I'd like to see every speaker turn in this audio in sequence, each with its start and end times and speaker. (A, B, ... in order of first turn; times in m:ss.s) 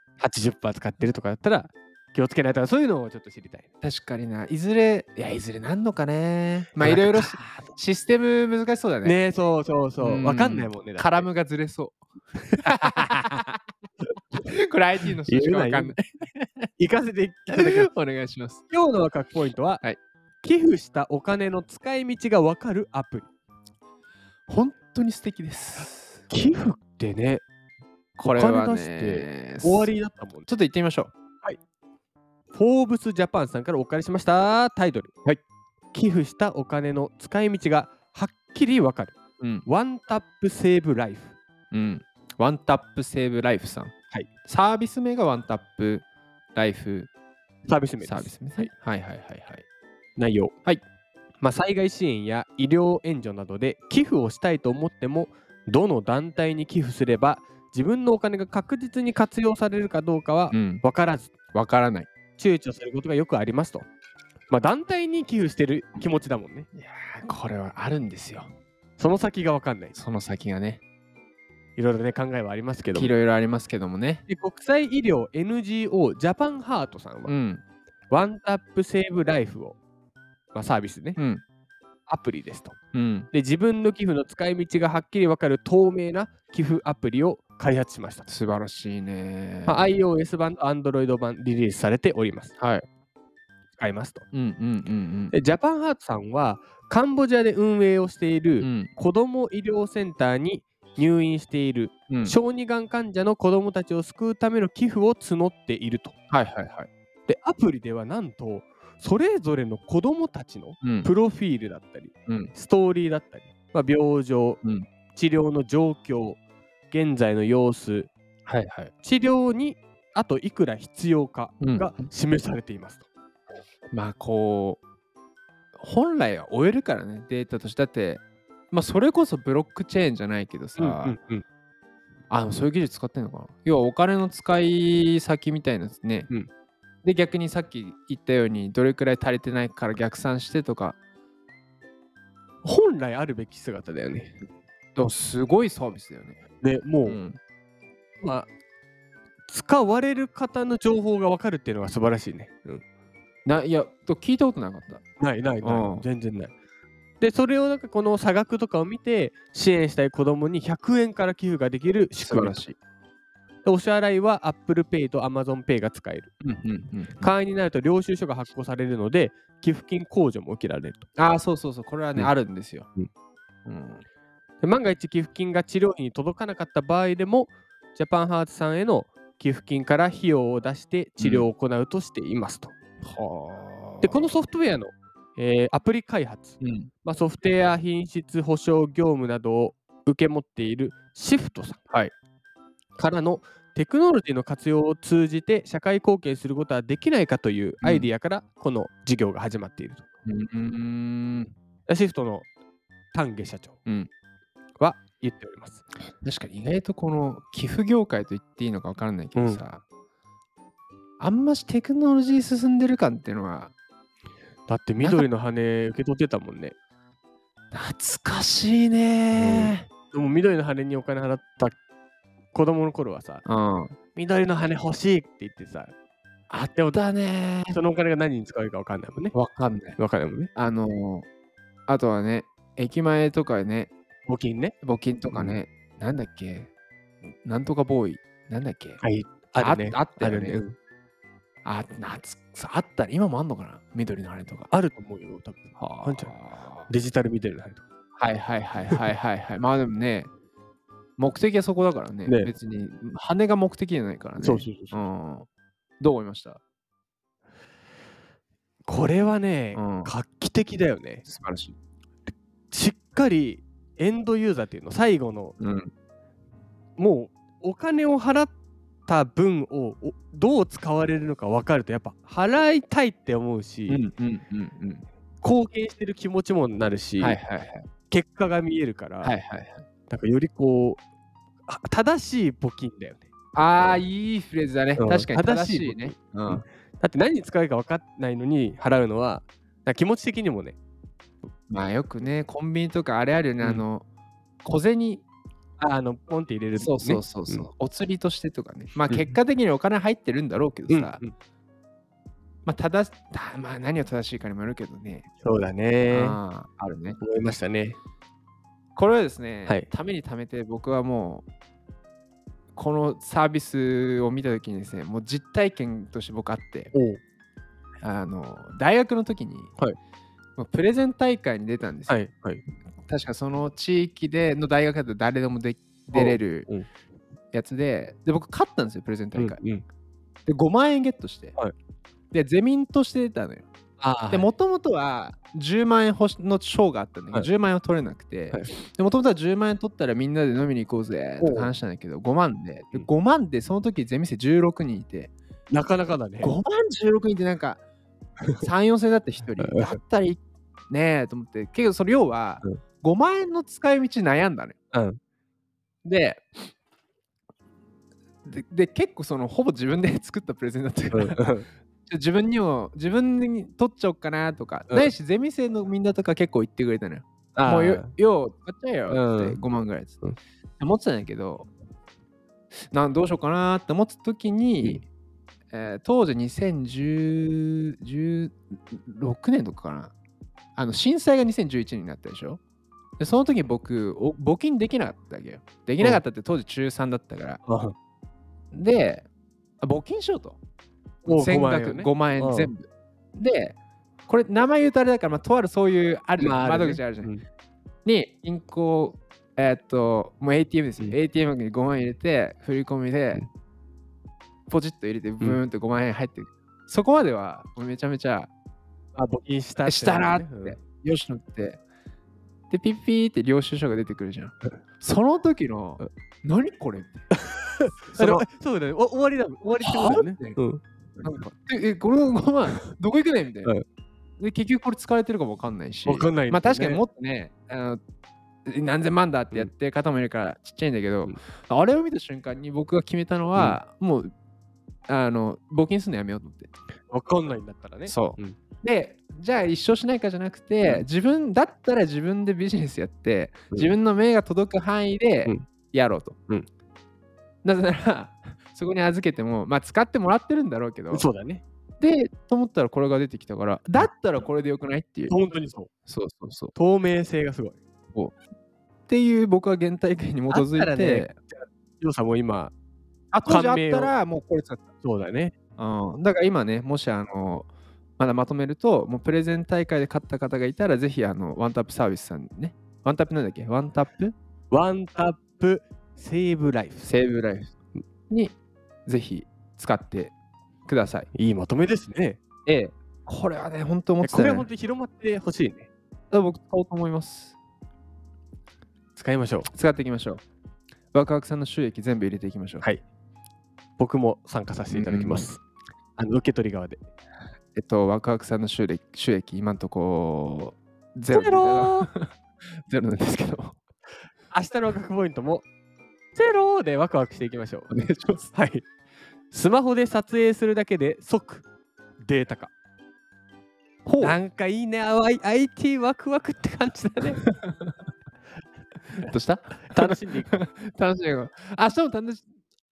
0:00.2-0:03.7 A
0:03.8-0:09.2 B
0:06.8-0:07.7 A
0:09.0-0:11.3 A
0:10.0-0:12.0 B
0:12.5-0:13.6 B
0:12.6-0:13.2 A
0:14.4-0:16.7 B
0:15.3-0:16.0 A
0:16.8-0:17.9 A
0:17.5-0:18.6 B
0:18.7-0:19.8 A
0:20.4-0:23.3 A
0:24.5-0:26.3 B
0:26.3-0:27.4 A
0:28.2-0:29.9 B
0:28.2-0:30.5 A
0:30.5-0:31.1 B
0:32.5-0:35.1 A
0:35.9-0:41.4 A
0:39.4-0:39.7 B
0:41.7-0:43.9 B
0:44.4-0:47.1 B
0:47.7-0:48.7 A
0:48.0-0:49.6 B
0:50.2-0:50.6 A
0:51.4-1:01.3 A
1:00.5-1:00.8 B
1:01.5-1:02.1 B
1:02.4-1:03.9 A
1:04.5-1:06.7 A
1:06.8-1:08.5 B
1:09.0-1:10.0 A
1:10.0-1:10.8 B
1:11.8-1:13.1 A
1:12.9-1:14.2 B
1:14.3-1:17.3 A
1:17.3-1:17.6 B
1:18.1-1:19.8 A
1:20.5-1:21.2 A
1:21.2-1:21.4 B
1:22.1-1:22.8 A
1:22.9-1:23.3 B
1:23.3-1:28.3 A
1:28.3-1:29.9 B
1:29.7-1:32.6 A
1:32.6-1:32.9 B
1:33.8-1:34.2 A
1:34.3-1:35.3 B
1:35.3-1:46.2 A
1:38.6-1:38.9 B
1:42.1-1:42.4 B
1:46.3-1:46.9 B
1:47.3-1:54.6 A
1:50.8-1:51.1 B
1:55.1-1:58.1 A
1:58.5-1:58.9 B
1:59.0-2:03.1 A
2:01.6-2:01.9 B
2:03.9-2:04.8 B
2:05.8-2:11.2 B
2:10.8-2:11.4 A
2:12.3-2:16.3 B
2:17.0-2:21.0 B
2:22.6-2:24.4 A
2:25.0-2:26.4 B
2:26.6-2:27.2 A
2:27.0-2:27.4 B
2:28.2-2:28.5 A
2:29.5-2:32.8 A
2:33.4-2:35.0 B
2:35.2-2:36.5 A
2:35.6-2:36.1 B
2:37.2-2:42.6 A
2:42.2-2:42.8 B
2:43.6-2:46.3 A
2:46.4-2:47.3 B
2:47.2-2:51.0 A
2:51.2-2:52.9 B
2:53.7-2:54.0 B
2:54.6-3:02.7 A
3:01.2-3:01.5 B
3:03.0-3:04.4 B
3:04.0-3:11.8 A
3:06.6-3:06.9 B
3:13.0-3:20.0 A
3:17.8-3:18.1 B
3:20.2-3:21.5 B
3:21.9-3:22.5 A
3:23.1-3:23.8 A
3:24.8-3:25.8 A
3:26.2-3:29.8 B
3:29.4-3:29.6 A
3:31.2-3:33.7 B
3:34.7-3:36.8 A
3:35.0-3:35.3 B
3:37.7-3:39.9 B
3:39.3-3:41.8 A
3:42.5-3:43.4 A
3:43.5-3:44.0 B
3:44.1-3:45.9 A
3:46.5-3:47.8 B
3:47.7-3:49.4 A
3:49.3-3:50.0 B
3:50.0-3:50.5 A
3:50.6-3:51.3 B
3:51.9-3:53.9 B
3:54.3-3:54.7 A
3:54.8-3:56.7 B
3:55.3-3:55.6 A
3:57.4-3:59.0 B
3:59.0-4:00.8 A
3:59.6-4:00.6 B
4:01.6-4:04.7 B
4:04.7-4:06.3 A
4:05.8-4:06.9 B
4:06.9-4:07.8 A
4:08.2-4:10.3 B
4:11.2-4:15.5 B
4:12.3-4:12.5 A
4:14.4-4:15.0 A
4:16.0-4:16.6 B
4:18.9-4:21.3 A
4:19.7-4:20.1 B
4:21.2-4:21.8 B
4:22.7-4:25.6 A
4:25.6-4:25.9 B
4:27.0-4:28.5 A
4:29.1-4:34.0 A
4:33.9-4:35.0 B
4:35.4-4:37.4 A
4:37.2-4:37.9 B
4:38.1-4:39.4 A
4:39.2-4:39.8 B
4:40.1-4:41.0 A
4:41.7-4:44.0 A
4:43.6-4:46.6 B
4:45.0-4:50.8 A
4:51.7-4:54.0 B
4:54.6-4:55.2 B
4:55.8-4:57.7 A
4:56.8-5:01.2 B
4:59.1-4:59.3 A
5:00.9-5:01.3 A
5:02.6-5:05.3 B
5:05.4-5:06.4 A
5:06.1-5:07.2 B
5:07.2-5:08.0 A
5:09.0-5:11.4 B
5:12.8-5:16.9 B
5:16.9-5:17.2 A
5:18.0-5:19.7 B
5:20.6-5:22.2 B
5:22.1-5:22.6 A
5:23.1-5:26.7 B
5:26.1-5:26.9 A
5:27.5-5:29.6 B
5:29.4-5:29.8 A
5:30.5-5:31.6 B
5:32.3-5:33.7 B
5:34.0-5:34.5 A
5:34.3-5:45.3 B
5:41.4-5:41.7 A
5:45.7-5:46.5 A
5:46.4-5:47.8 B
5:48.6-5:54.8 B
5:49.6-5:50.0 A
5:54.9-5:55.2 A
5:56.0-5:56.7 B
5:58.4-6:01.5 B
6:01.1-6:01.7 A
6:02.1-6:10.2 B
6:07.6-6:08.1 A
6:09.1-6:09.6 A
6:10.8-6:11.7 B
6:12.9-6:15.1 B
6:15.7-6:20.1 B
6:20.8-6:22.6 B
6:23.2-6:27.6 B
6:27.7-6:27.9 A
6:28.7-6:29.3 B
6:29.8-6:30.6 B
6:31.3-6:32.7 A
6:31.3-6:33.8 B
6:34.3-6:37.3 B
6:36.4-6:37.4 A
6:38.0-6:43.5 B
6:44.7-6:48.5 B
6:49.2-6:50.8 A
6:49.8-6:51.8 B
6:52.7-6:57.3 B
6:57.3-7:00.8 A
6:58.1-6:58.5 B
6:59.8-7:00.6 B
7:01.2-7:03.8 B
7:04.4-7:08.0 B
7:06.1-7:07.0 A
7:08.7-7:14.3 B
7:15.1-7:16.7 B
7:17.1-7:18.6 A
7:18.1-7:26.4 B
7:27.6-7:31.3 B
7:31.1-7:31.6 A
7:32.0-7:35.4 B
7:35.3-7:35.9 A
7:36.1-7:36.8 B
7:36.8-7:37.8 A
7:39.1-7:41.4 B
7:40.5-7:42.7 A
7:43.3-7:44.8 B
7:43.4-7:44.1 A
7:45.0-7:45.5 A
7:45.8-7:47.7 B
7:48.2-7:54.4 B
7:54.7-7:57.1 A
7:57.0-7:57.7 B
7:58.3-8:00.3 B
8:00.8-8:01.3 B
8:01.3-8:02.4 A
8:02.7-8:04.7 B
8:04.2-8:05.9 A
8:06.3-8:07.6 B
8:09.2-8:09.7 A
8:09.7-8:10.4 B
8:11.1-8:12.9 B
8:14.0-8:15.6 A
8:14.9-8:15.5 B
8:16.2-8:17.0 A
8:17.8-8:22.3 B
8:21.3-8:22.1 A
8:22.9-8:23.8 B
8:24.5-8:25.6 A
8:26.4-8:27.9 A
8:27.9-8:28.6 B
8:28.5-8:28.8 A
8:29.5-8:31.7 A
8:32.2-8:32.7 A
8:34.0-8:34.4 B
8:34.2-8:37.4 A
8:37.4-8:37.9 B
8:39.2-8:42.5 B
8:39.9-8:40.6 A